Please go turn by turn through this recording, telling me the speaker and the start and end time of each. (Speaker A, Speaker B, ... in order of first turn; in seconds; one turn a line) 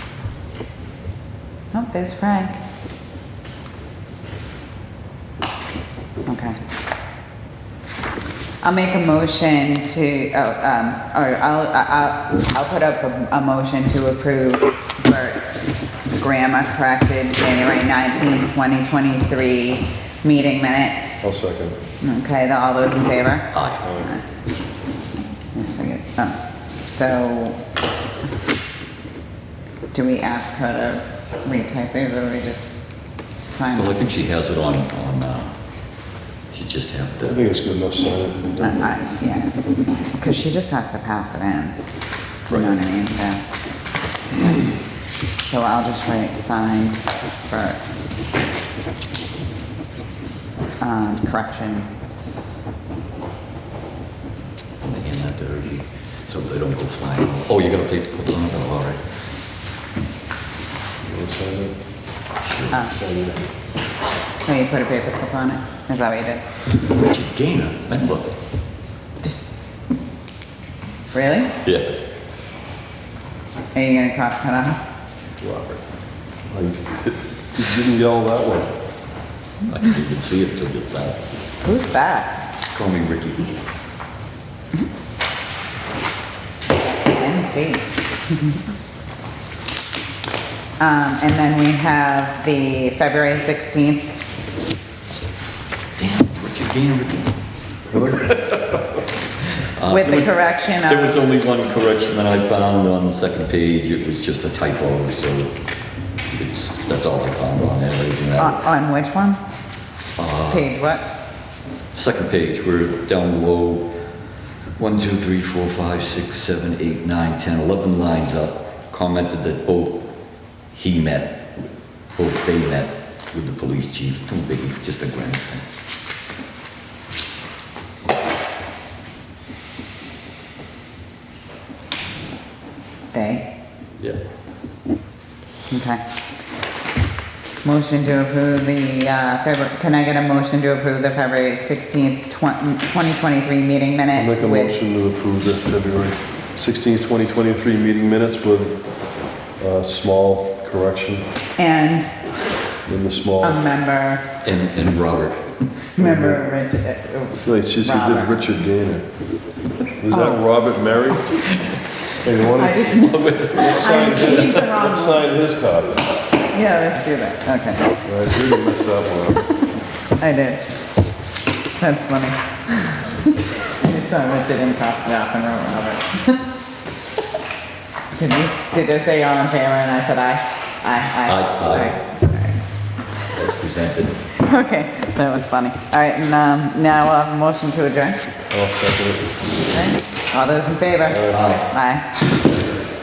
Speaker A: 1.7-2.6
Speaker A: 6.2-6.6
Speaker A: 8.6-21.3
Speaker B: 21.2-21.8
Speaker A: 22.0-24.2
Speaker C: 23.5-23.9
Speaker A: 25.5-27.6
Speaker A: 29.9-33.0
Speaker A: 33.5-34.2
Speaker C: 33.7-35.5
Speaker C: 36.5-37.4
Speaker B: 37.3-38.8
Speaker A: 38.6-41.8
Speaker C: 42.5-42.8
Speaker A: 42.5-43.4
Speaker A: 45.4-48.1
Speaker A: 50.8-52.6
Speaker C: 54.8-59.0
Speaker B: 61.0-61.7
Speaker C: 62.4-62.8
Speaker A: 62.7-63.0
Speaker B: 62.8-63.5
Speaker A: 64.4-66.4
Speaker C: 66.9-68.3
Speaker A: 69.2-69.5
Speaker A: 71.1-71.5
Speaker C: 71.6-71.9
Speaker A: 73.7-74.8
Speaker B: 75.4-75.8
Speaker B: 76.5-78.7
Speaker C: 79.7-81.3
Speaker A: 81.6-82.4
Speaker C: 82.7-83.5
Speaker A: 86.7-88.6
Speaker A: 90.8-94.1
Speaker C: 96.0-97.3
Speaker C: 97.9-98.8
Speaker C: 99.8-105.5
Speaker A: 99.9-101.2
Speaker C: 106.3-108.6
Speaker A: 108.4-109.4
Speaker C: 110.2-110.7
Speaker A: 110.5-111.1
Speaker C: 111.9-113.9
Speaker C: 114.8-120.1
Speaker C: 120.7-125.6
Speaker A: 133.1-133.4
Speaker A: 135.7-136.0
Speaker A: 137.6-144.7
Speaker B: 144.1-148.8
Speaker B: 149.6-151.2
Speaker A: 151.6-152.3
Speaker B: 152.8-153.6
Speaker A: 153.4-154.3
Speaker C: 154.4-155.6
Speaker A: 156.0-158.4
Speaker B: 156.0-156.4
Speaker B: 157.4-159.1
Speaker B: 160.0-161.4
Speaker A: 160.1-160.4
Speaker B: 162.2-163.0
Speaker A: 162.4-165.2
Speaker C: 162.8-164.7
Speaker B: 163.5-166.1
Speaker A: 166.5-167.9
Speaker B: 168.0-169.5
Speaker A: 170.2-170.6
Speaker A: 171.8-176.4
Speaker A: 178.1-182.6
Speaker C: 181.3-181.9
Speaker C: 183.3-184.1
Speaker A: 184.3-188.2
Speaker B: 188.5-189.4
Speaker A: 189.7-192.1
Speaker B: 191.1-191.5
Speaker C: 191.3-191.7